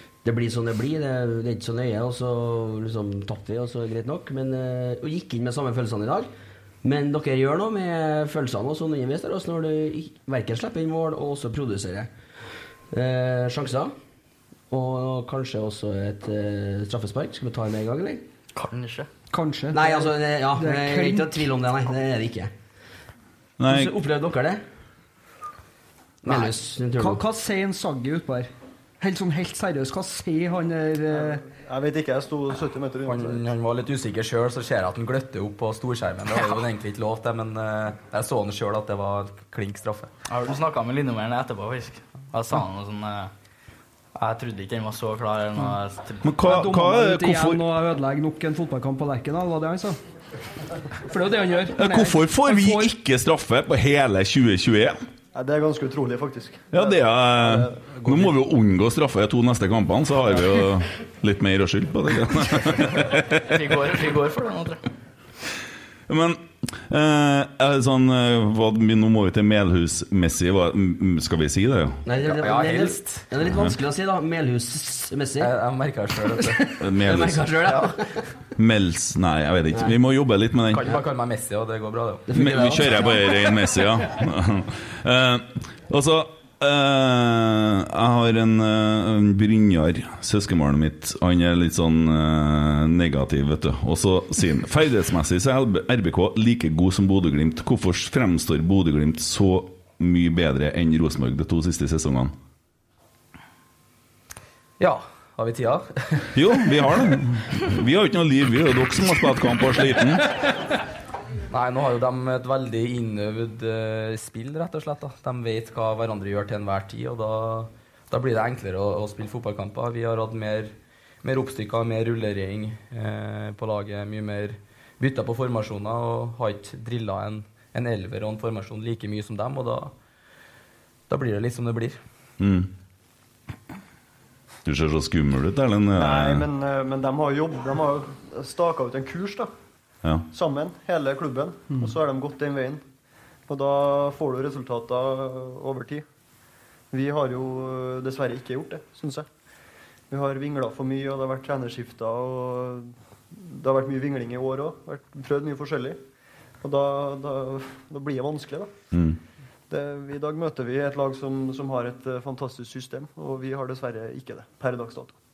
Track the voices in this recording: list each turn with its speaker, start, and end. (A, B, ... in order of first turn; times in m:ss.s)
0:00.2-0:06.3 A
0:06.8-0:12.1 A
0:12.9-0:13.9 A
0:14.7-0:18.2 A
0:18.6-0:19.1 B
0:19.3-0:21.4 C
0:19.7-0:22.5 A
0:23.6-0:23.9 D
0:23.7-0:24.6 A
0:26.2-0:27.2 A
0:26.3-0:31.4 C
0:31.1-0:33.5 E
0:33.0-0:40.1 F
0:40.3-0:43.3 B
0:44.2-0:46.4 B
0:46.2-0:47.6 D
0:46.4-0:50.0 C
0:51.1-0:52.9 C
0:51.8-0:55.0 D
0:55.3-0:57.9 E
0:56.7-1:03.4 D
1:03.4-1:04.8 B
1:06.1-1:12.0 D
1:12.0-1:15.5 A
1:12.2-1:13.3 F
1:15.4-1:16.7 F
1:16.8-1:17.5 D
1:17.0-1:18.1 A
1:18.6-1:20.9 D
1:20.7-1:22.3 F
1:22.3-1:23.2 A
1:22.4-1:42.3 D
1:44.8-1:46.3 F
1:46.3-1:50.3 D
1:51.5-2:09.9 F
2:11.1-2:12.0 F
2:12.4-2:12.7 D
2:14.7-2:16.5 D
2:15.9-2:19.5 E
2:20.3-2:22.8 E
2:23.5-2:26.1 E
2:26.9-2:29.3 E
2:30.1-2:36.0 E
2:36.6-2:38.7 E
2:38.9-2:39.2 D
2:39.7-2:45.2 E